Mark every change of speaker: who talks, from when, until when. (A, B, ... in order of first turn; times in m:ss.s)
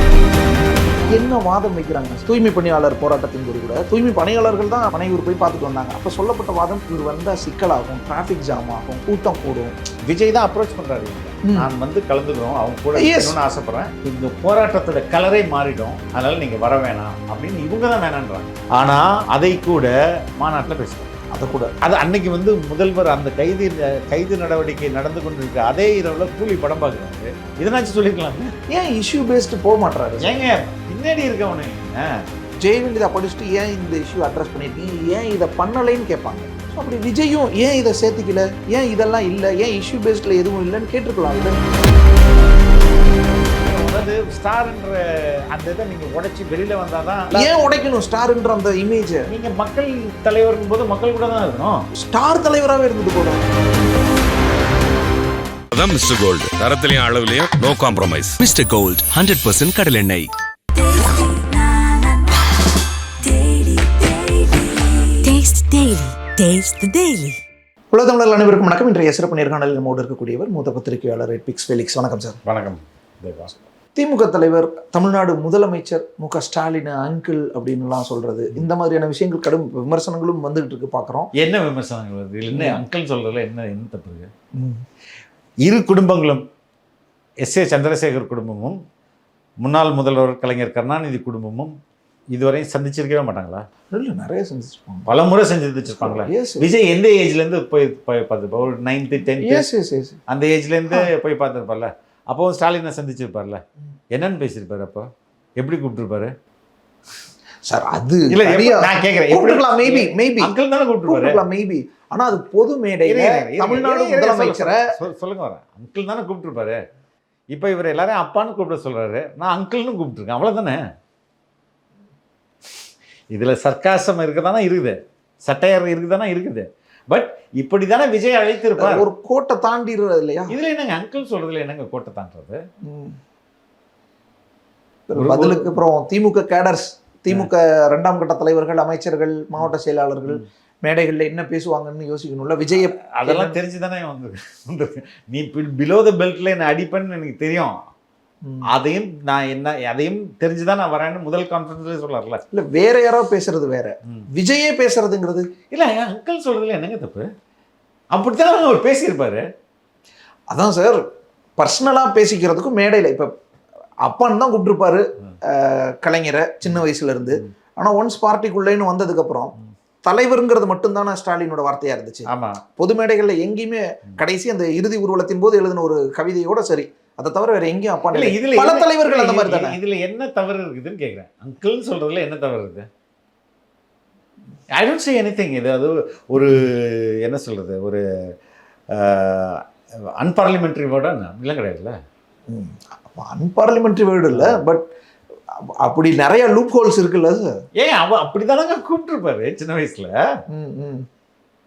0:01.1-0:09.7 A
0:10.1-0:21.1 B
0:13.0-0:13.4 A
0:21.3-0:21.7 A
0:21.8-0:28.5 B
0:28.7-0:30.3 A
0:30.2-0:32.0 B
0:32.6-0:41.6 A
0:43.6-0:47.5 B
0:47.3-0:49.2 A
0:49.3-0:51.8 B
0:52.0-0:53.4 A
0:55.7-0:58.4 C
0:58.4-1:00.3 D
1:01.0-1:02.1 D
1:03.3-1:04.1 D
1:05.2-1:07.4 D
1:07.9-1:12.4 A
1:12.4-1:13.6 B
1:13.9-1:21.3 A
1:21.4-1:24.3 B
1:22.5-1:22.8 A
1:24.5-1:24.8 A
1:25.6-1:26.4 B
1:27.4-1:28.8 B
1:29.6-1:31.7 B
1:32.3-1:33.6 B
1:33.9-1:35.1 A
1:35.1-1:39.6 B
1:36.0-1:36.6 A
1:39.4-1:40.2 A
1:40.3-1:43.6 B
1:44.1-1:45.1 B
1:45.6-1:46.3 B
1:47.6-1:50.5 A
1:48.3-1:51.4 B
1:51.0-1:54.8 A
1:53.0-1:56.8 B
1:57.5-2:00.8 B
2:03.3-2:09.0 B
2:08.8-2:10.6 A
2:10.5-2:12.6 B
2:12.8-2:13.2 A
2:15.1-2:23.6 A
2:15.1-2:15.8 B
2:23.0-2:27.8 B
2:28.7-2:32.4 B
2:32.5-2:35.5 A
2:35.7-2:37.3 B
2:38.1-2:39.4 B
2:40.5-2:41.0 A
2:41.6-2:43.3 A
2:44.0-2:59.8 A
2:52.3-2:52.6 B
2:58.1-3:02.9 B
3:04.8-3:08.0 B
3:08.9-3:09.6 B
3:10.2-3:12.0 B
3:12.5-3:14.8 A
3:14.3-3:14.6 B
3:15.8-3:17.5 A
3:17.8-3:20.1 B
3:20.5-3:21.0 A